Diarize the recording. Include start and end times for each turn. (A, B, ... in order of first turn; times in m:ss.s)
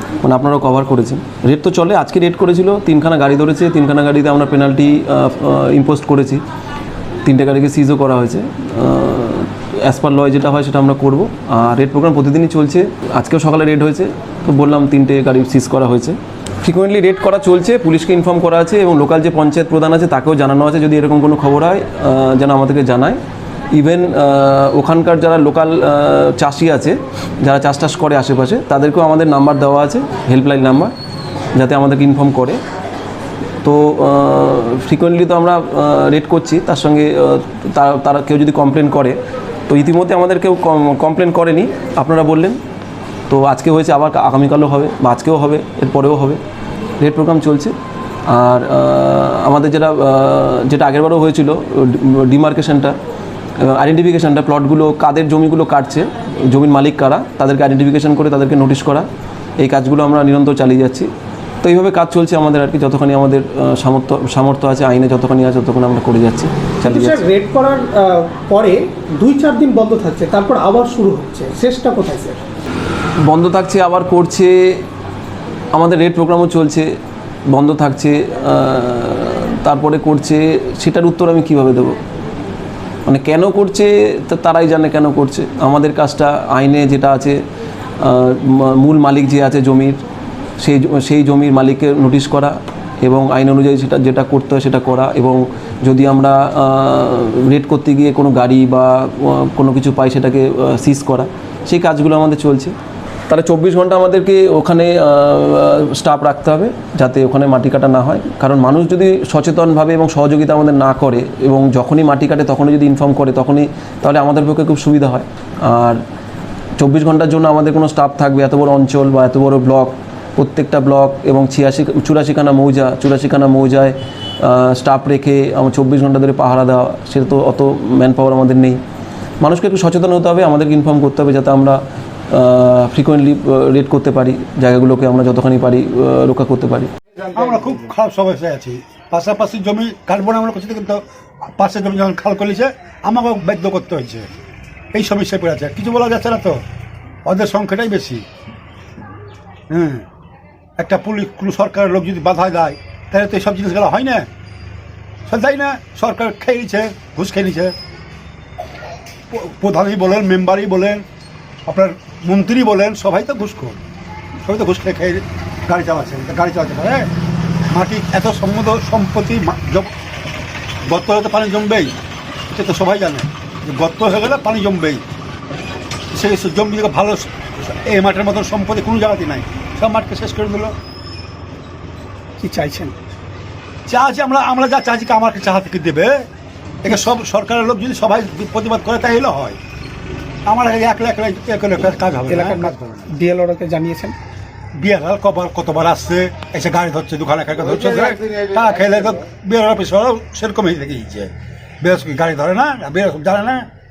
0:00.2-0:06.4 A
0:07.2-0:23.2 A
0:23.7-0:30.9 A
0:31.6-0:32.6 A
0:33.6-0:39.2 A
0:39.7-0:42.6 A
0:43.3-0:46.4 A
0:47.0-0:47.7 A
0:48.3-0:53.0 A
0:53.6-0:59.1 A
0:59.6-1:01.1 A
1:01.6-1:07.3 A
1:06.9-1:12.4 B
1:13.2-1:14.8 A
1:15.7-1:16.9 A
1:17.5-1:22.0 A
1:23.1-1:27.4 A
1:28.0-1:30.0 A
1:30.6-1:42.8 A
1:43.3-1:56.0 A
1:56.8-2:08.8 A
2:09.4-2:16.9 A
2:17.3-2:24.3 C
2:24.9-2:26.6 C
2:27.2-2:28.2 C
2:29.7-2:30.1 C
2:30.8-2:34.3 C
2:35.3-2:37.8 C
2:39.3-2:41.0 C
2:41.7-2:43.8 C
2:44.4-2:47.1 C
2:47.7-2:49.9 C
2:50.9-2:51.9 C
2:52.5-2:55.0 C
2:56.1-3:00.7 C
3:02.4-3:03.0 B
3:03.9-3:06.3 C
3:06.8-3:09.6 C
3:10.5-3:13.0 C
3:12.3-3:14.2 B
3:14.8-3:21.3 C
3:21.8-3:23.7 C